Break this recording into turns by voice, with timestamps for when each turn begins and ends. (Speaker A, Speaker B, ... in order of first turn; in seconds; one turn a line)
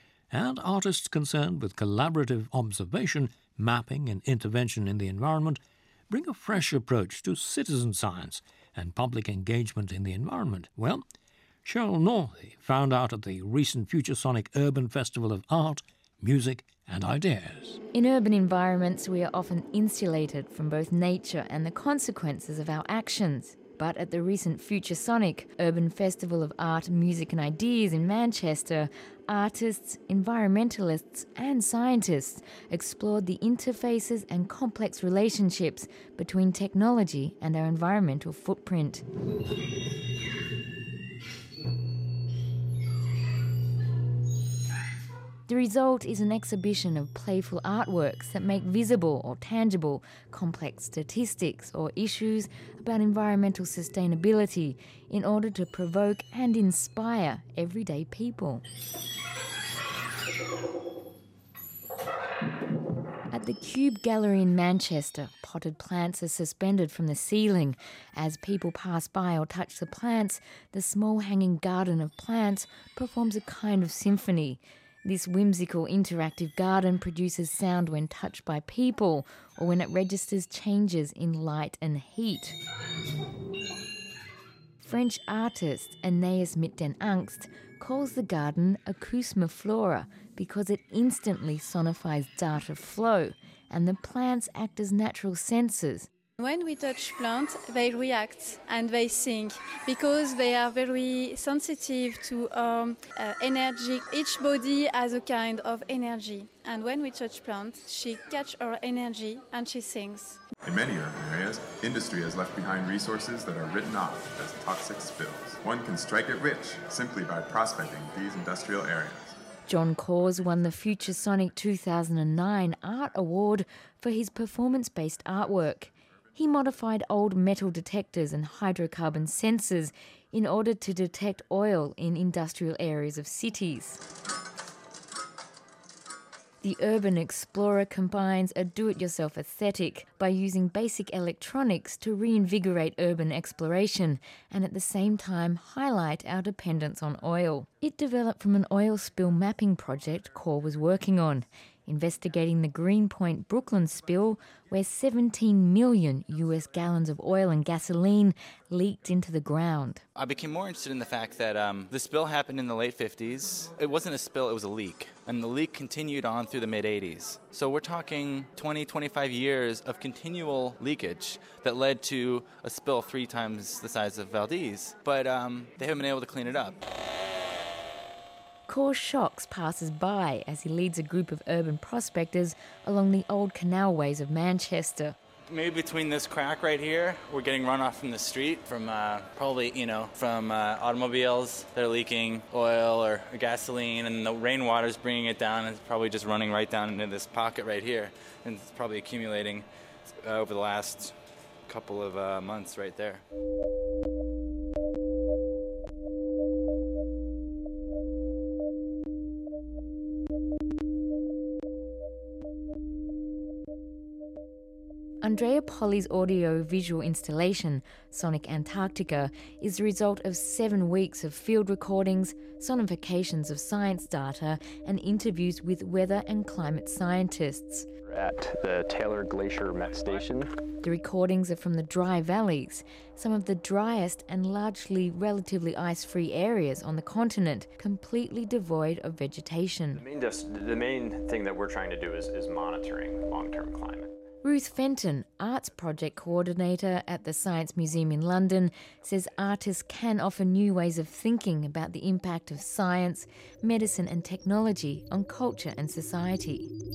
Speaker A: 0.3-5.6
Speaker A: 6.1-11.0
Speaker A: 11.6-17.8
Speaker B: 17.9-39.0
Speaker B: 45.5-58.6
Speaker B: 63.3-82.6
Speaker B: 84.8-96.1
Speaker C: 96.4-110.4
Speaker D: 110.6-119.3
Speaker B: 119.7-134.0
Speaker B: 136.6-160.0
Speaker E: 160.2-176.8
Speaker B: 178.7-185.2
Speaker E: 185.5-201.2
Speaker E: 201.7-203.2
Speaker B: 215.2-227.9
Speaker F: 228.1-230.5
Speaker B: 230.8-240.0
Speaker F: 239.9-244.1
Speaker B: 244.4-256.7